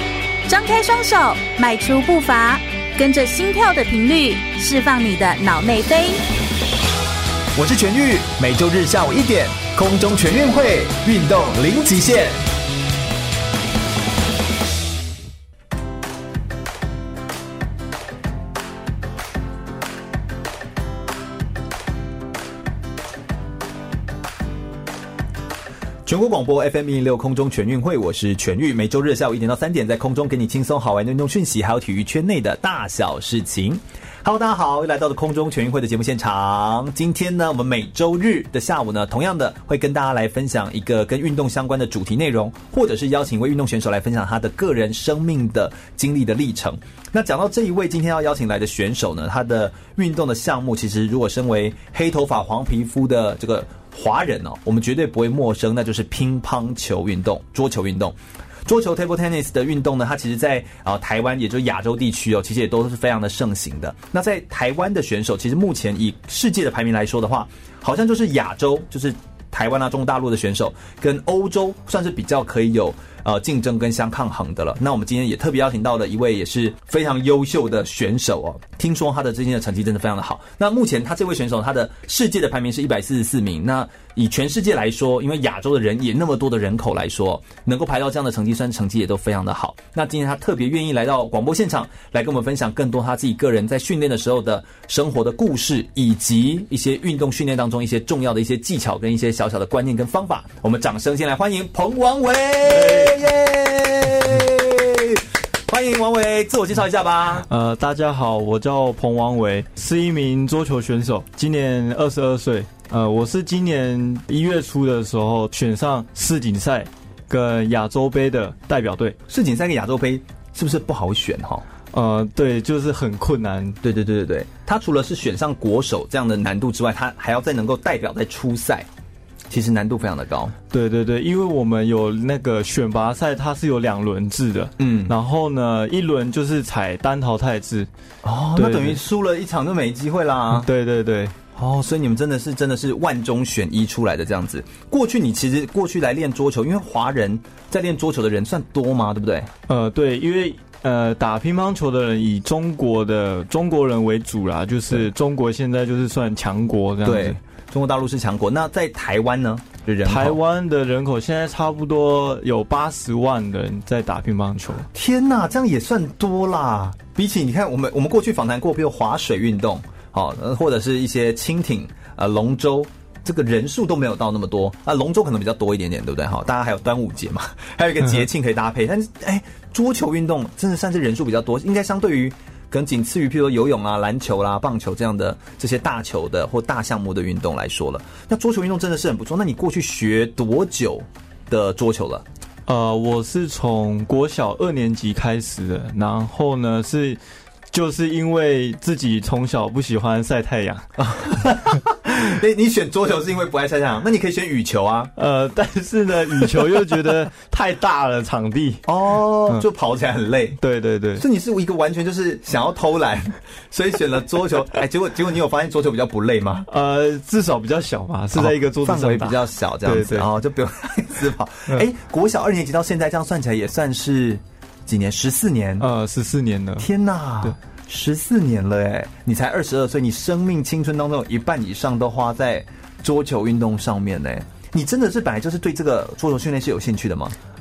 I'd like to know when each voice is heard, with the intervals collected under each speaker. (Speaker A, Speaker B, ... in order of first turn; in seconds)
Speaker A: 0.5-6.2
Speaker B: 7.5-12.4, 26.1-107.5, 119.3-121.7, 123.8-128.9, 129.5-130.5, 134.8-135.1, 138.2-140.7, 141.6-149.5, 157.0-160.4, 164.9-192.3, 201.0-205.1, 206.3-206.9, 208.8-210.6, 211.2-216.7, 218.3-225.9, 226.8-237.4
Speaker C: 102.7-103.1, 107.4-119.2, 121.9-123.8, 130.7-137.9, 138.6-139.0, 140.5-141.3, 149.7-157.4, 160.1-164.9, 192.7-197.2, 197.7-201.1, 205.2-208.9, 210.6-211.2, 216.7-220.3, 225.8-226.9